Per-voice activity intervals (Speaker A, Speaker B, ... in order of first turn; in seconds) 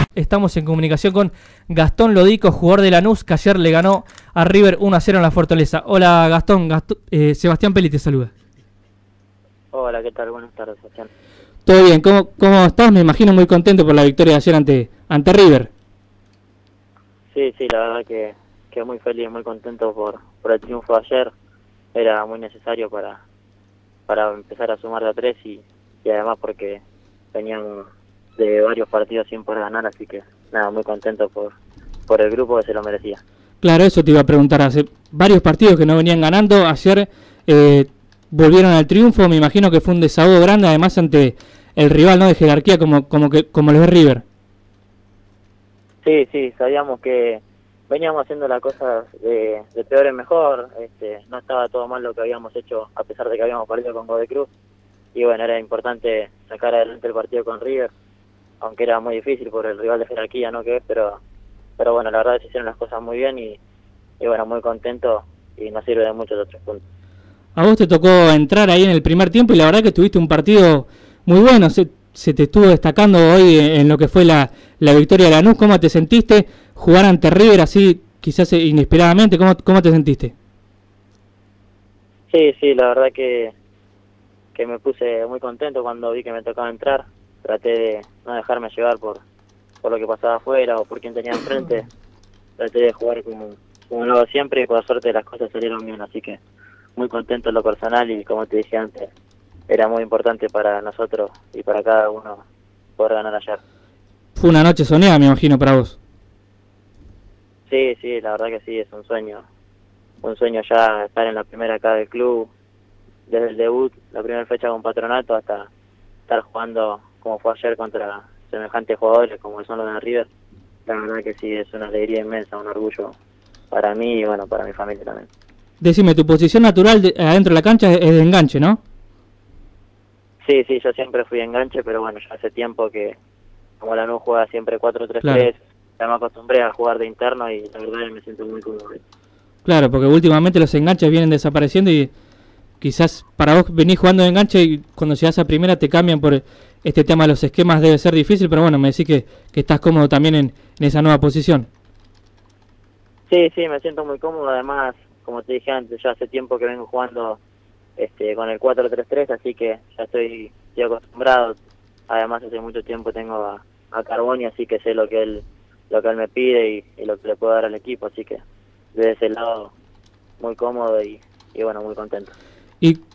Speaker A: 0.1-8.3, 11.7-15.7, 33.6-44.2, 67.6-80.3, 104.4-106.0, 125.8-128.8, 139.7-142.1, 142.8-151.7
Speaker B: 9.7-11.1, 17.3-21.3, 21.9-23.2, 24.1-26.8, 27.3-33.2, 46.0-54.5, 55.1-57.9, 58.6-61.2, 61.8-63.6, 64.2-66.8, 82.3-83.5, 84.5-89.2, 89.8-91.9, 92.6-96.4, 97.0-99.1, 99.7-102.5, 103.0-103.6, 107.7-109.5, 110.2-112.5, 113.3-115.7, 116.3-120.3, 120.9-123.2, 123.7-125.3, 130.4-133.2, 133.8-139.0, 153.3-157.4, 158.0-161.6, 162.1-168.4, 168.9-169.7, 170.4-172.3